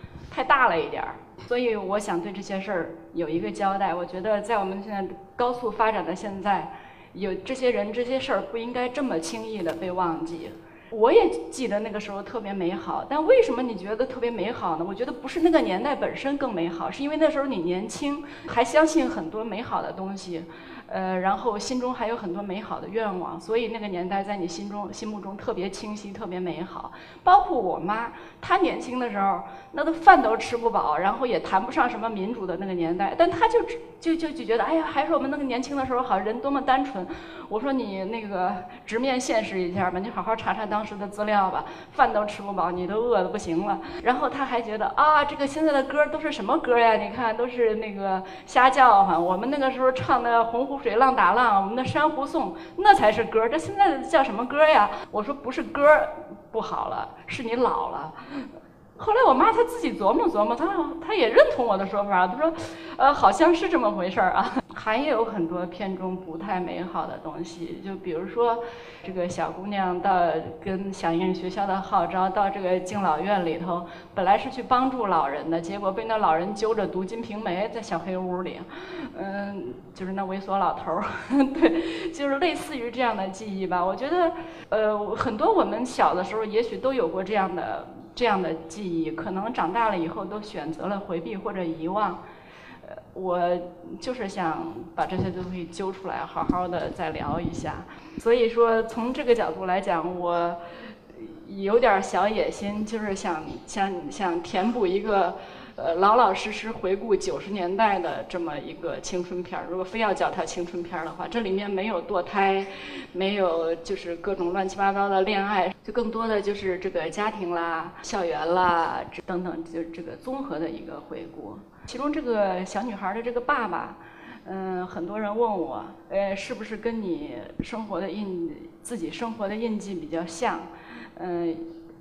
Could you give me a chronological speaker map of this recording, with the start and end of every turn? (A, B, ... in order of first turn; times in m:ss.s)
0:00.3-1:32.2 A
1:32.8-2:11.7 A